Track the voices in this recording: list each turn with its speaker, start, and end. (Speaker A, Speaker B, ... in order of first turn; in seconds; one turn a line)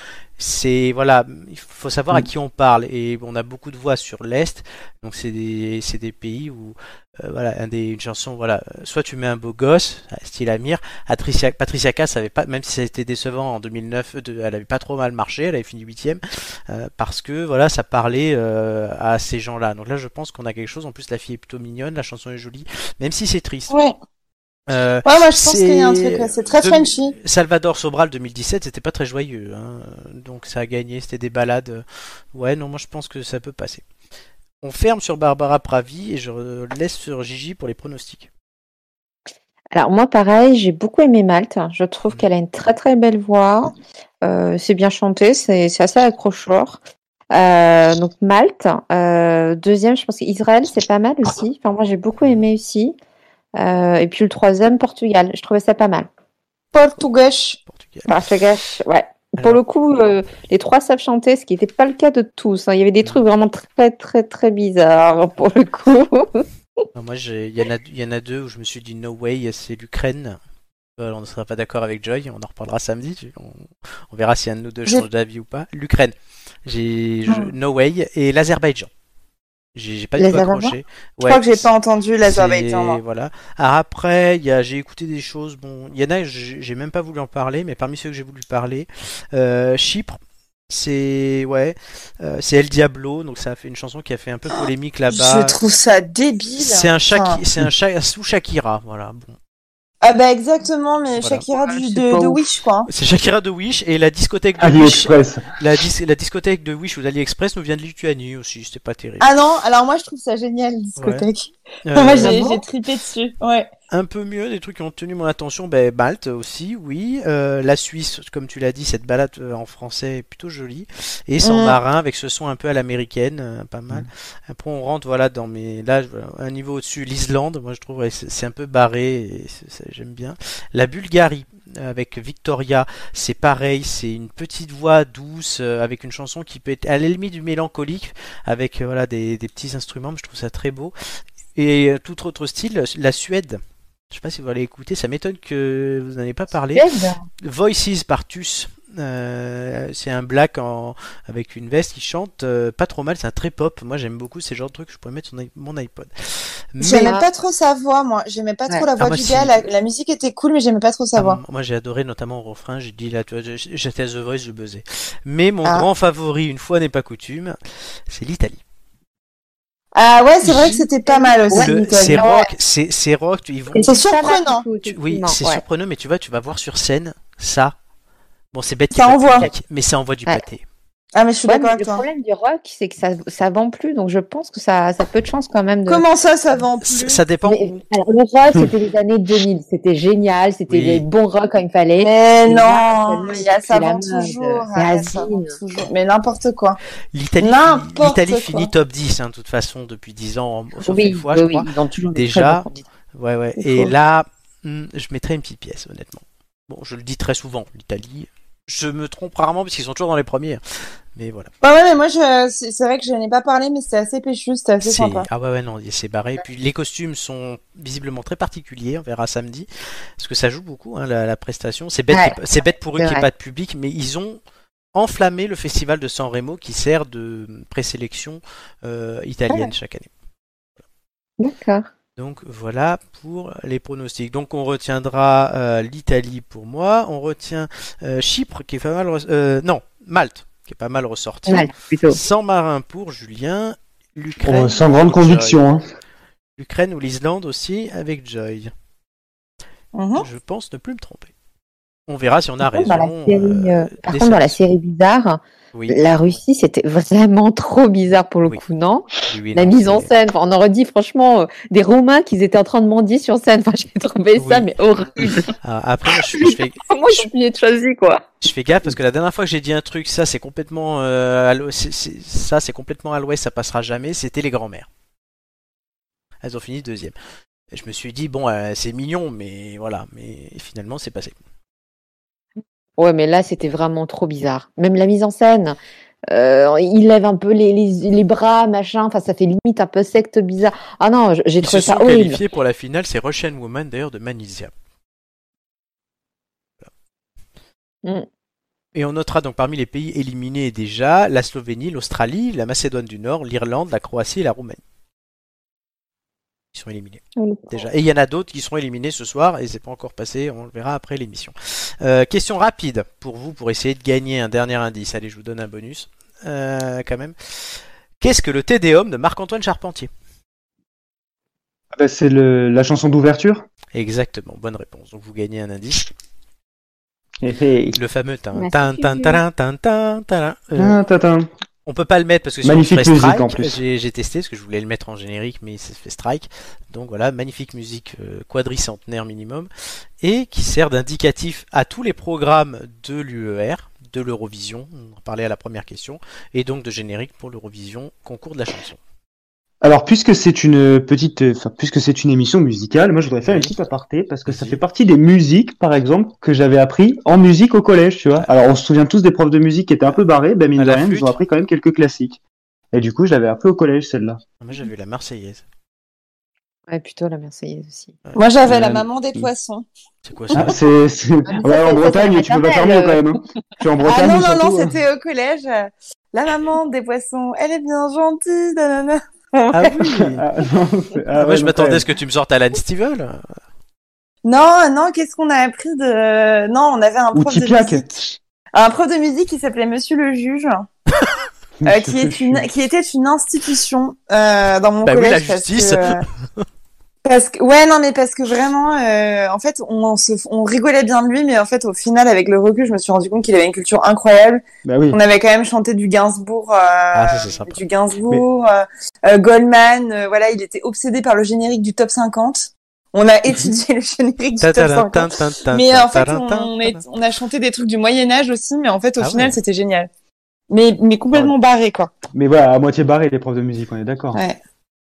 Speaker A: 0.4-23.7
Speaker A: 24.7-33.8
Speaker B: 25.0-27.1
Speaker A: 34.6-38.3
Speaker C: 39.7-46.8
Speaker C: 47.3-53.0
Speaker C: 53.6-56.1
Speaker B: 56.7-57.6
Speaker A: 57.7-58.1
Speaker C: 58.1-66.4
Speaker A: 66.9-70.4
Speaker A: 71.0-76.1
Speaker A: 76.7-78.9
Speaker A: 79.7-81.7
Speaker B: 80.2-80.7
Speaker B: 81.2-83.0
Speaker A: 82.2-90.2
Speaker A: 90.7-95.5
Speaker B: 95.1-97.4
Speaker A: 96.6-99.4
Speaker B: 100.0-102.9
Speaker A: 101.2-101.4
Speaker C: 101.5-102.4
Speaker A: 102.9-109.3
Speaker D: 104.6-105.5
Speaker B: 109.2-113.7
Speaker A: 111.0-111.2
Speaker A: 111.8-112.4
Speaker C: 112.2-112.6
Speaker A: 113.9-140.9
Speaker B: 121.4-121.8
Speaker A: 141.6-146.8
Speaker C: 146.7-147.2
Speaker A: 147.4-157.1
Speaker B: 156.8-161.4
Speaker C: 156.8-157.2
Speaker A: 159.0-159.6
Speaker A: 161.2-167.6
Speaker A: 168.1-168.6
Speaker B: 169.9-172.3
Speaker A: 170.4-170.8
Speaker C: 171.1-172.5
Speaker A: 171.5-173.9
Speaker C: 173.7-175.6
Speaker B: 173.8-174.6
Speaker A: 174.8-177.7
Speaker A: 178.5-180.6
Speaker B: 178.9-179.5
Speaker B: 181.1-182.0
Speaker C: 181.4-186.0
Speaker B: 185.9-187.2
Speaker A: 186.8-187.8
Speaker C: 187.4-195.6
Speaker A: 190.7-191.0
Speaker B: 192.0-196.8
Speaker A: 197.1-210.6
Speaker B: 197.4-198.7
Speaker C: 200.8-202.8
Speaker A: 211.1-211.5
Speaker B: 211.6-215.3
Speaker A: 214.8-219.7
Speaker A: 220.2-224.4
Speaker C: 222.1-222.4
Speaker C: 223.0-223.3
Speaker A: 224.9-230.1
Speaker C: 231.4-231.9
Speaker A: 232.2-245.6
Speaker C: 241.5-242.2
Speaker D: 244.4-245.8
Speaker A: 246.6-248.7
Speaker B: 249.9-250.2
Speaker A: 250.2-251.3
Speaker A: 252.1-254.6
Speaker C: 252.6-265.5
Speaker A: 259.2-260.1
Speaker A: 264.4-264.7
Speaker A: 265.4-267.3
Speaker C: 266.3-268.2
Speaker A: 268.4-274.9
Speaker A: 276.4-277.1
Speaker A: 277.7-281.4
Speaker C: 283.0-285.8
Speaker C: 286.3-292.4
Speaker A: 291.6-294.7
Speaker A: 298.9-304.8
Speaker A: 306.7-320.1
Speaker C: 307.4-307.8
Speaker D: 321.9-323.6
Speaker A: 323.9-326.1
Speaker D: 327.4-328.0
Speaker A: 327.9-331.0
Speaker C: 328.6-329.4
Speaker D: 330.8-331.5
Speaker A: 331.9-339.7
Speaker D: 332.6-333.8
Speaker A: 340.2-349.0
Speaker D: 349.8-362.4
Speaker A: 353.4-353.7
Speaker A: 354.4-354.8
Speaker A: 360.8-361.4
Speaker D: 362.9-364.4
Speaker A: 364.6-365.6
Speaker C: 366.9-368.1
Speaker B: 368.4-369.9
Speaker D: 368.6-369.5
Speaker A: 370.2-370.8
Speaker D: 370.5-374.9
Speaker C: 371.4-373.2
Speaker B: 374.0-380.0
Speaker A: 379.7-380.4
Speaker D: 380.1-382.1
Speaker A: 381.4-383.4
Speaker B: 384.4-388.1
Speaker D: 387.3-388.4
Speaker B: 388.7-390.9
Speaker D: 391.8-392.6
Speaker B: 391.9-396.2
Speaker A: 395.0-396.6
Speaker B: 397.2-420.1
Speaker D: 404.8-405.2
Speaker A: 407.1-407.8
Speaker A: 414.6-417.0
Speaker A: 419.2-419.6
Speaker B: 420.7-422.1
Speaker D: 422.3-424.4